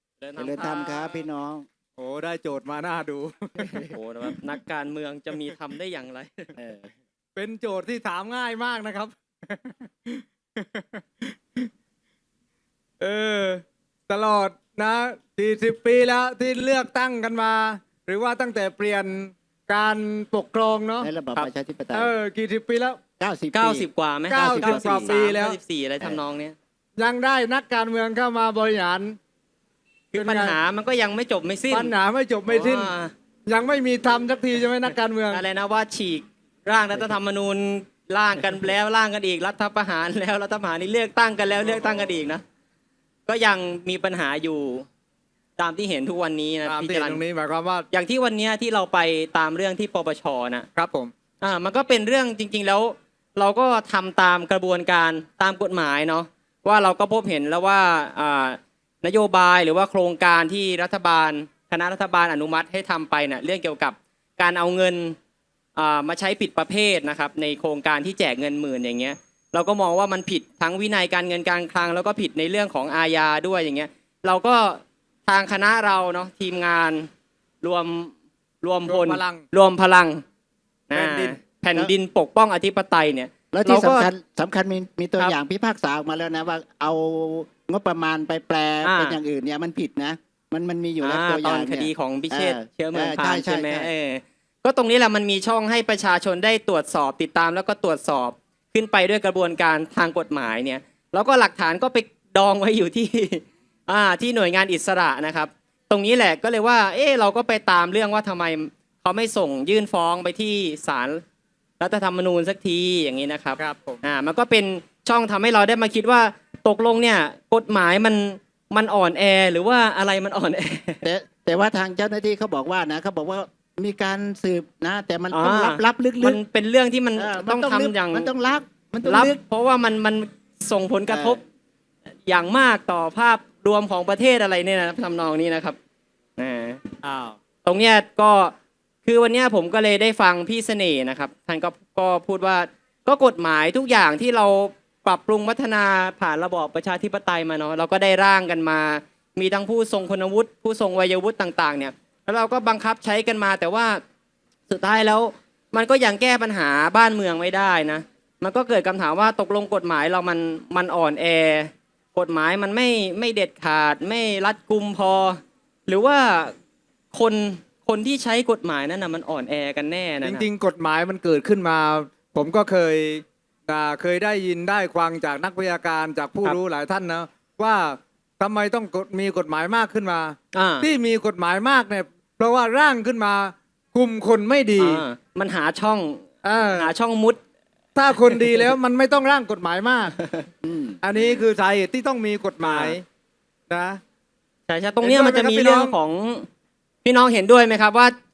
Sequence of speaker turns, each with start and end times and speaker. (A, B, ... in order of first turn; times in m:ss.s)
0:00.2-0:01.2 A
0:00.4-0:01.7 B
0:02.0-0:03.8 C
0:03.6-0:03.9 B
0:03.9-0:06.5 A
0:06.6-0:06.9 B
0:07.4-0:11.7 C
0:13.0-0:21.1 C
0:21.0-0:22.1 B
0:21.9-0:23.0 C
0:23.2-0:23.9 B
0:23.5-0:26.6 A
0:24.3-0:25.6 C
0:24.4-0:25.2 B
0:27.0-0:29.2 C
0:30.1-0:31.9 A
0:30.1-0:30.6 C
0:31.7-0:32.9 C
0:32.5-0:33.1 A
0:33.5-0:35.4 C
0:35.3-0:42.4 A
0:43.3-0:44.9 A
0:45.6-0:47.2 A
0:46.7-0:47.9 C
0:47.9-0:50.7 A
0:50.8-0:51.1 C
0:51.4-1:05.2 A
1:05.8-1:17.1 A
1:17.6-1:20.2 A
1:18.9-1:19.4 C
1:20.9-1:24.1 A
1:20.9-1:21.4 C
1:23.5-1:33.9 B
1:28.8-1:29.2 A
1:31.0-1:51.2 A
1:51.8-2:01.0 A
1:53.6-1:54.0 C
2:01.0-2:06.4 B
2:05.3-2:08.3 A
2:07.2-2:09.4 B
2:09.0-2:11.4 A
2:11.1-2:11.4 B
2:12.3-2:15.8 A
2:16.4-2:17.0 A
2:17.0-2:17.3 C
2:17.6-2:18.5 A
2:19.0-2:34.0 A
2:34.7-2:46.5 A
2:47.1-2:50.4 A
2:50.2-3:05.0 C
3:00.5-3:00.9 A
3:04.8-3:07.4 A
3:06.4-3:06.9 C
3:08.0-3:10.2 C
3:08.2-3:08.7 A
3:10.2-3:10.5 A
3:10.6-3:11.0 B
3:11.0-3:13.0 C
3:12.6-3:13.0 A
3:13.7-3:14.0 C
3:14.7-3:16.5 A
3:15.0-3:15.9 C
3:17.0-3:18.1 A